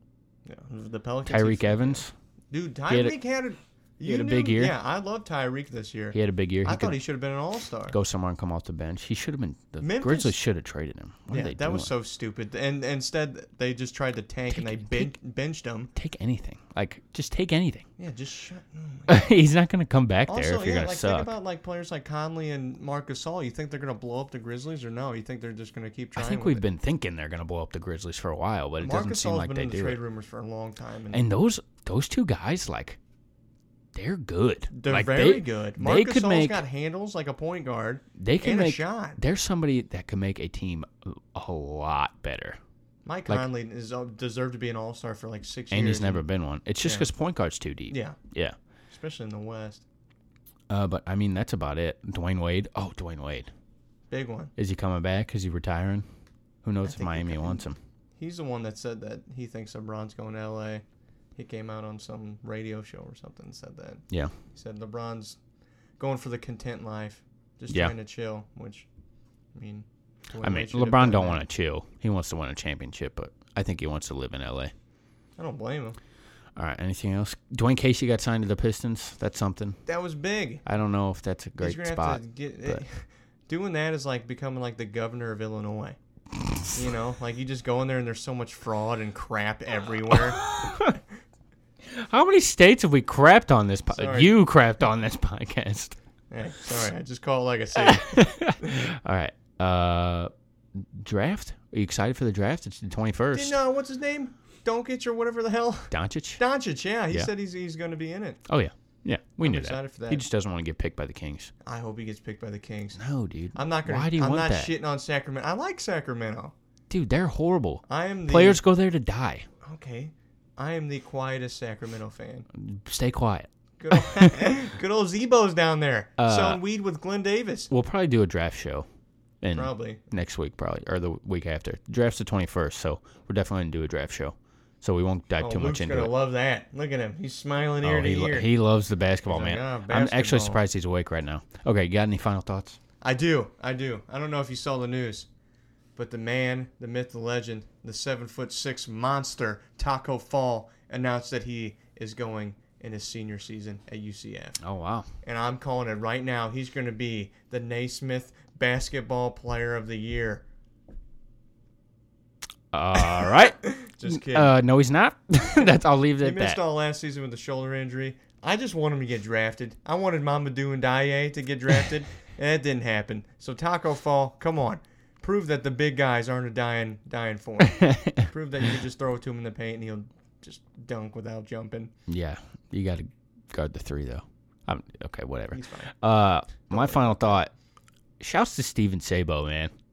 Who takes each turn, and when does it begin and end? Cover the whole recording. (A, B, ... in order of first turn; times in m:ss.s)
0:00.5-0:08.0 A
0:01.3-0:02.1 B
0:02.9-0:03.2 B
0:04.0-0:04.8 B
0:06.1-0:07.0 B
0:07.9-0:11.9 B
0:09.8-0:10.4 A
0:11.3-0:15.9 A
0:14.5-0:15.1 B
0:16.0-0:17.9 B
0:18.0-0:19.3 A
0:19.1-0:21.3 B
0:20.3-0:26.6 A
0:26.2-0:30.0 B
0:28.8-0:31.3 A
0:31.1-0:33.0 B
0:34.0-0:36.6 B
0:34.7-0:39.2 A
0:38.2-0:42.6 B
0:43.1-0:46.2 A
0:45.7-0:48.6 B
0:46.8-0:47.1 A
0:47.9-0:48.2 A
0:48.9-0:49.8 A
0:50.7-0:53.5 B
0:54.1-0:54.5 A
0:54.6-0:56.0 B
0:56.6-0:57.8 B
0:56.8-0:57.6 A
0:58.2-1:00.8 A
1:01.4-1:05.4 A
1:06.0-1:08.9 A
1:09.5-1:11.4 A
1:10.4-1:14.7 B
1:15.4-1:16.0 A
1:16.6-1:19.8 B
1:19.9-1:20.6 A
1:20.6-1:22.8 B
1:21.6-1:26.0 A
1:26.7-1:30.4 A
1:30.1-1:31.0 B
1:31.9-1:36.0 B
1:33.9-1:34.3 A
1:36.3-1:38.8 A
1:37.8-1:43.6 B
1:43.3-1:48.4 A
1:45.9-1:46.4 B
1:48.5-1:51.5 B
1:49.4-1:50.2 A
1:51.7-1:53.0 A
1:53.0-1:54.7 B
1:53.5-1:56.5 A
1:56.9-1:59.5 B
1:57.9-1:58.6 A
1:59.6-2:02.5 A
2:02.6-2:04.6 B
2:03.8-2:07.7 A
2:06.2-2:06.6 B
2:07.7-2:08.9 B
2:09.4-2:16.1 B
2:09.5-2:10.0 A
2:15.4-2:18.5 A
2:17.8-2:22.8 B
2:19.3-2:20.6 A
2:23.0-2:25.3 A
2:26.0-2:34.6 A
2:34.6-2:35.1 B
2:35.2-2:40.4 A
2:42.7-2:46.6 B
2:43.3-2:44.5 A
2:46.2-3:01.9 A
2:57.7-2:58.3 B
3:02.1-3:07.5 B
3:05.5-3:05.9 A
3:06.7-3:07.4 A
3:08.2-3:09.7 B